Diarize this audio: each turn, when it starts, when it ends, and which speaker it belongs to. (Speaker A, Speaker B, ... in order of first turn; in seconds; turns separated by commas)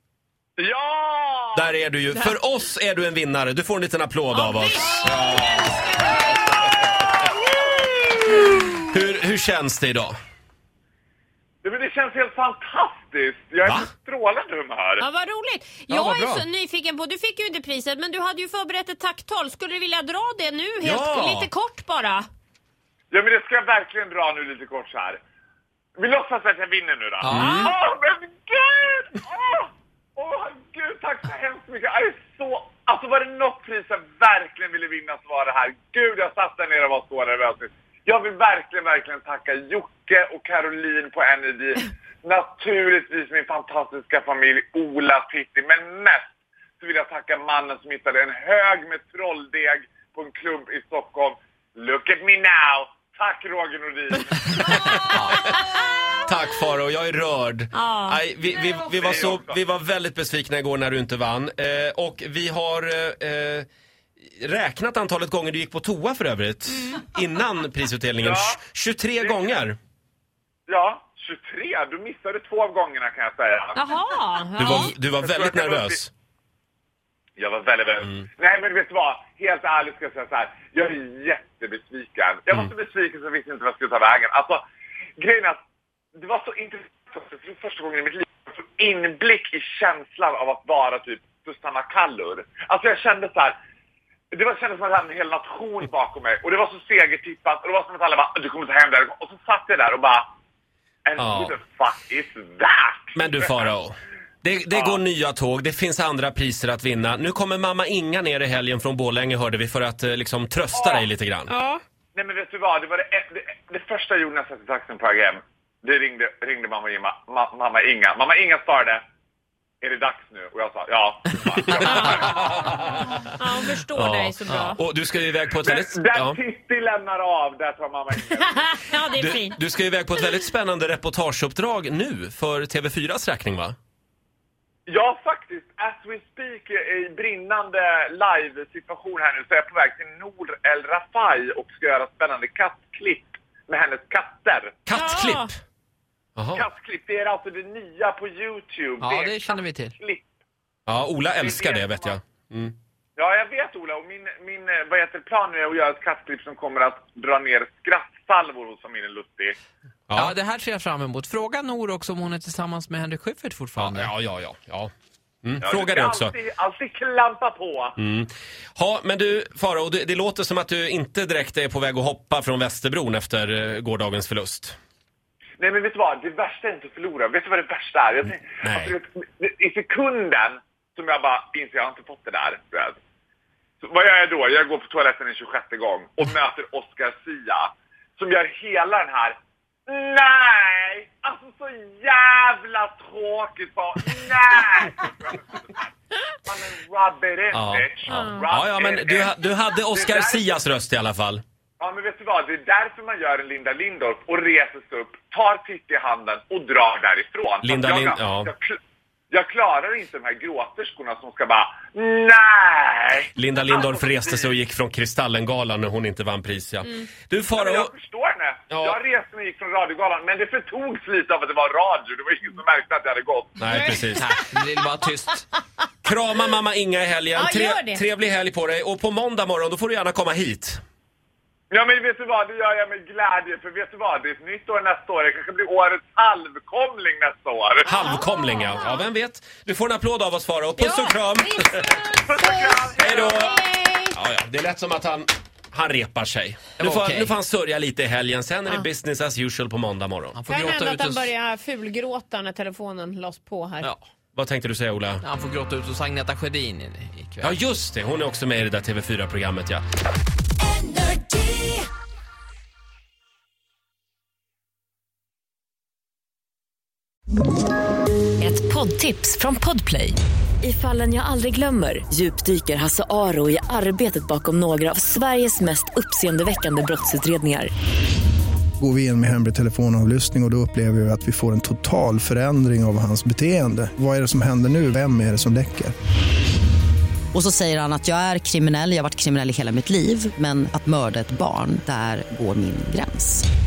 Speaker A: 0.6-1.7, Speaker B: 1.5-5.6, Speaker C: 4.3-6.4, Speaker B: 8.8-10.1, Speaker A: 11.6-15.1, Speaker C: 15.0-22.3, Speaker B: 15.9-16.4, Speaker B: 20.8-21.5, Speaker A: 23.1-25.2, Speaker A: 26.0-46.3, Speaker D: 27.2-27.7, Speaker B: 27.3-27.7, Speaker A: 46.8-54.9, Speaker B: 54.8-55.4, Speaker B: 56.2-63.7, Speaker C: 57.7-58.2, Speaker A: 58.9-59.6, Speaker B: 64.4-69.8, Speaker A: 68.2-68.6, Speaker A: 69.2-69.6, Speaker A: 70.7-74.0, Speaker C: 73.8-74.9, Speaker B: 74.6-76.1, Speaker A: 74.6-76.0, Speaker A: 77.4-84.6, Speaker A: 85.2-85.6, Speaker A: 86.1-93.5, Speaker A: 94.3-100.2, Speaker A: 101.0-103.7, Speaker B: 101.2-101.6, Speaker B: 103.1-111.5, Speaker A: 104.7-105.0, Speaker A: 110.7-111.1, Speaker C: 111.5-111.8, Speaker A: 112.1-119.0, Speaker A: 119.8-122.6, Speaker B: 121.7-123.3, Speaker C: 121.8-122.3, Speaker C: 123.2-124.8, Speaker B: 123.9-126.4, Speaker D: 124.5-124.8, Speaker A: 125.6-128.8, Speaker C: 128.5-129.6, Speaker B: 129.2-133.8, Speaker A: 134.9-144.8, Speaker B: 144.8-145.6, Speaker C: 144.9-145.5, Speaker B: 146.3-146.6, Speaker A: 146.5-150.2, Speaker D: 149.0-149.9, Speaker B: 150.9-152.8, Speaker A: 151.4-152.2, Speaker A: 153.2-159.6, Speaker B: 160.1-160.3, Speaker D: 160.1-164.1, Speaker B: 163.8-164.9, Speaker B: 165.4-166.3, Speaker A: 165.6-168.0, Speaker B: 168.0-174.8, Speaker A: 175.6-183.0, Speaker B: 178.6-178.9, Speaker A: 183.8-195.8, Speaker A: 196.4-199.3, Speaker B: 197.5-201.4, Speaker C: 198.1-198.4, Speaker A: 199.9-200.6, Speaker A: 201.8-208.8, Speaker B: 207.6-208.5, Speaker A: 209.3-214.5, Speaker B: 213.3-217.9, Speaker A: 217.6-223.6, Speaker B: 218.7-219.0, Speaker B: 223.6-224.3, Speaker C: 223.6-224.3, Speaker D: 224.1-225.4, Speaker B: 226.0-230.8, Speaker C: 227.3-228.0, Speaker A: 231.7-238.1, Speaker B: 237.8-241.9, Speaker C: 237.9-239.0, Speaker C: 240.8-244.2, Speaker A: 242.1-243.5, Speaker B: 243.0-243.6, Speaker B: 244.1-250.4, Speaker D: 246.8-247.3, Speaker D: 250.3-251.3, Speaker C: 250.5-253.9, Speaker B: 254.3-255.2, Speaker D: 255.2-257.6, Speaker B: 257.4-259.8, Speaker E: 260.9-261.6, Speaker E: 268.4-277.7, Speaker F: 278.8-285.9, Speaker G: 287.3-293.4